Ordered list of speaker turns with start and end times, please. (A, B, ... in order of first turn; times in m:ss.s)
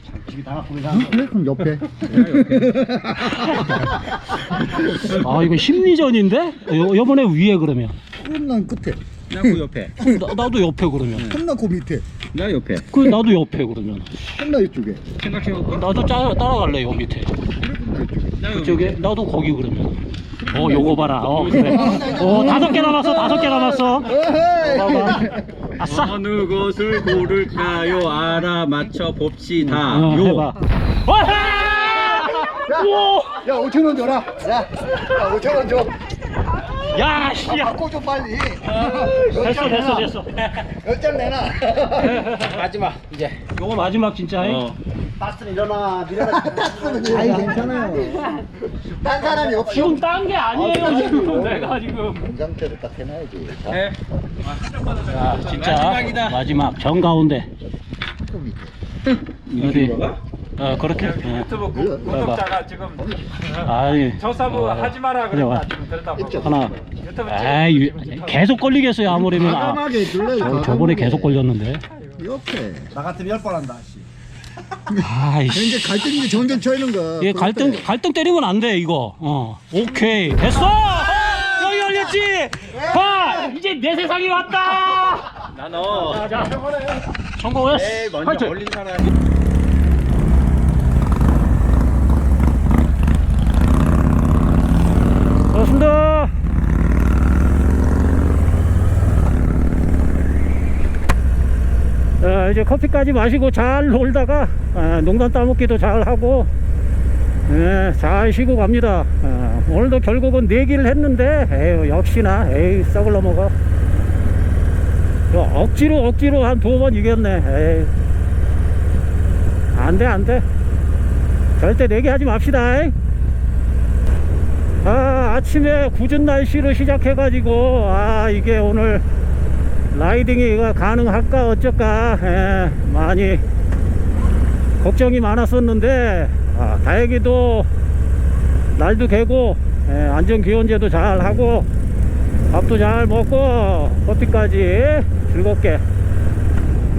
0:00.1-0:01.1 A
0:00.3-0:00.7 B
0:00.9-0:03.8 C
0:02.0-0:02.9 A
0:03.3-0:08.0 D
0:08.2-0:10.2 C
0:09.3-0:09.9 A
0:10.0-0:11.3 D
0:11.2-0:12.0 C
0:12.3-0:12.9 A
0:12.9-0:14.4 D
0:14.3-0:15.0 C
0:15.2-0:15.9 A
0:15.7-0:17.3 D
0:17.6-0:18.4 C
0:18.4-0:19.0 A
0:18.5-0:26.2 D
0:21.3-0:22.1 A
0:21.5-0:25.4 C
0:25.8-0:30.5 A
0:29.6-0:33.4 D
0:32.4-0:36.1 C
0:36.9-0:37.8 D
0:37.4-0:42.3 C
0:38.9-0:40.5 D
0:42.1-0:43.4 A
0:43.5-0:44.7 D
0:44.4-0:44.8 A
0:45.2-0:48.0 B
0:46.2-0:48.4 C
0:49.0-0:50.0 C
0:49.1-0:50.0 B
0:49.7-0:52.2 D
0:50.5-0:51.8 B
0:52.1-0:53.9 C
0:53.7-0:56.2 E
0:55.1-0:57.5 D
0:55.5-0:56.4 A
0:58.2-0:58.7 C
0:59.5-1:00.2 A
0:59.6-1:02.4 D
1:00.8-1:03.2 E
1:01.7-1:02.2 C
1:03.6-1:05.7 D
1:04.2-1:08.5 E
1:06.2-1:06.6 C
1:06.4-1:06.8 D
1:07.3-1:11.8 D
1:09.1-1:09.8 B
1:09.6-1:11.4 C
1:12.2-1:12.9 C
1:12.9-1:14.0 B
1:14.9-1:16.2 D
1:15.5-1:17.9 C
1:17.2-1:25.5 D
1:25.5-1:26.4 A
1:26.2-1:26.9 C
1:27.4-1:28.6 D
1:27.7-1:29.1 A
1:35.5-1:36.3 D
1:42.2-1:46.5 D
1:47.5-1:53.5 D
1:55.3-1:57.9 D
1:59.7-2:00.4 D
2:01.6-2:02.9 D
2:04.8-2:09.0 D
2:09.9-2:13.5 D
2:14.8-2:17.7 D
2:18.7-2:21.7 D
2:22.5-2:25.8 D